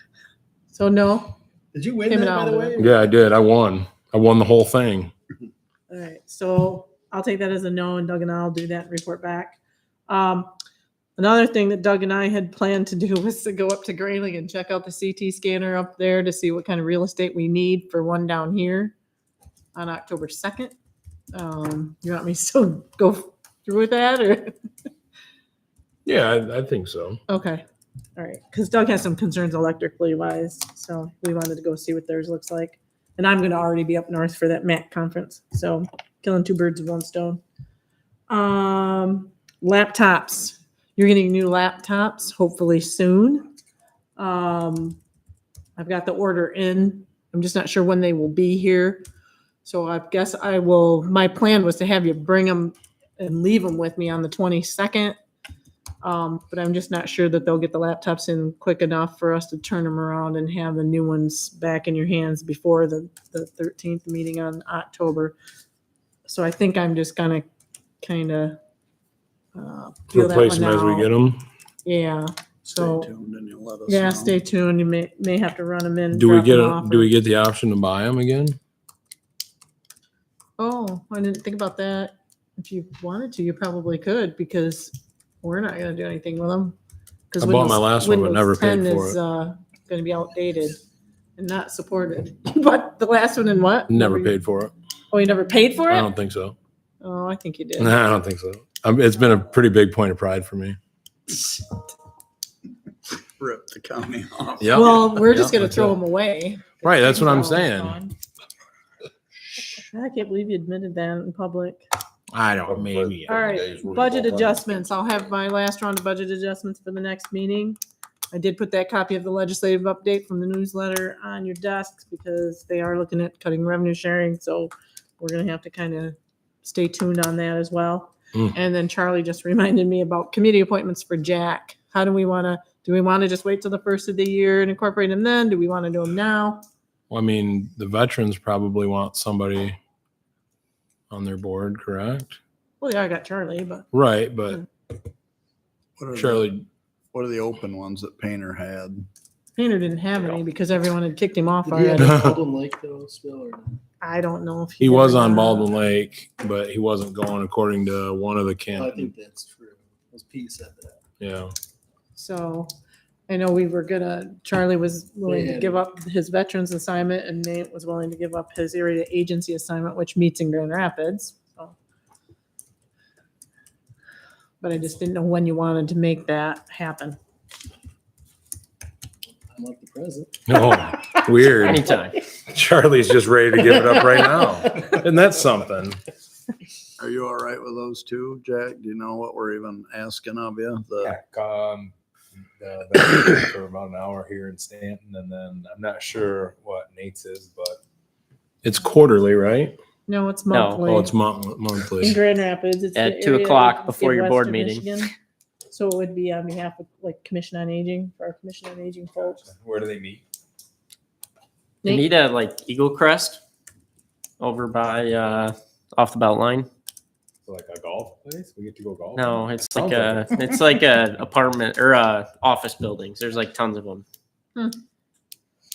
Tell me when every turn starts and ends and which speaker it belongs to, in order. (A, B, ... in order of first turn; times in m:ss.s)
0:00.7-0:01.3 A
0:01.7-0:03.1 B
0:02.0-0:02.7 A
0:02.8-0:05.1 C
0:05.9-0:10.5 A
0:11.2-0:18.9 A
0:19.7-0:20.7 A
0:21.3-0:24.6 A
0:26.0-0:27.2 C
0:27.3-0:27.6 A
0:28.2-0:37.4 A
0:38.3-0:43.4 A
0:44.2-0:45.0 A
0:45.8-0:49.0 A
0:49.6-0:55.2 A
0:56.0-1:05.3 A
1:06.2-1:07.5 A
1:08.0-1:08.6 A
1:09.5-1:11.1 A
1:10.1-1:11.4 C
1:11.8-1:13.1 A
1:12.6-1:14.4 D
1:13.9-1:17.1 A
1:16.1-1:18.6 C
1:20.6-1:26.7 A
1:27.3-1:30.8 A
1:27.4-1:29.2 C
1:31.4-1:34.4 A
1:33.9-1:34.7 C
1:35.1-1:36.1 A
1:35.9-1:36.5 C
1:37.0-1:38.0 A
1:37.8-1:40.8 C
1:43.4-1:45.1 D
1:44.6-1:45.9 C
1:44.7-1:48.1 A
1:46.8-1:48.0 C
1:49.6-1:51.8 A
1:52.3-1:53.6 C
1:52.7-1:53.0 E
1:53.2-1:57.8 A
1:53.6-1:54.5 E
1:58.3-2:16.6 A
2:17.1-2:19.8 C
2:21.1-2:22.4 C
2:22.8-2:23.8 A
2:23.9-2:24.6 C
2:26.0-2:26.5 D
2:26.1-2:26.6 C
2:27.1-2:29.0 D
2:29.6-2:32.3 A
2:31.6-2:33.8 B
2:34.0-2:35.7 A
2:34.8-2:39.1 C
2:38.7-2:41.0 B
2:41.2-2:41.5 C
2:42.1-2:42.7 A
2:43.3-2:51.8 A
2:45.2-2:45.8 B
2:54.6-2:57.2 A
2:59.5-3:01.1 B
3:00.5-3:01.8 C
3:01.6-3:02.2 F
3:02.4-3:06.0 C
3:03.8-3:04.4 B
3:07.0-3:11.1 D
3:11.0-3:17.8 E
3:18.6-3:19.8 C
3:20.1-3:21.1 A
3:20.5-3:20.8 F
3:20.8-3:22.2 C
3:22.0-3:25.1 A
3:22.9-3:24.8 F
3:25.7-3:29.4 A
3:29.4-3:30.2 E
3:31.8-3:33.4 F
3:34.4-3:36.7 F
3:37.4-3:40.4 E
3:39.2-3:44.0 F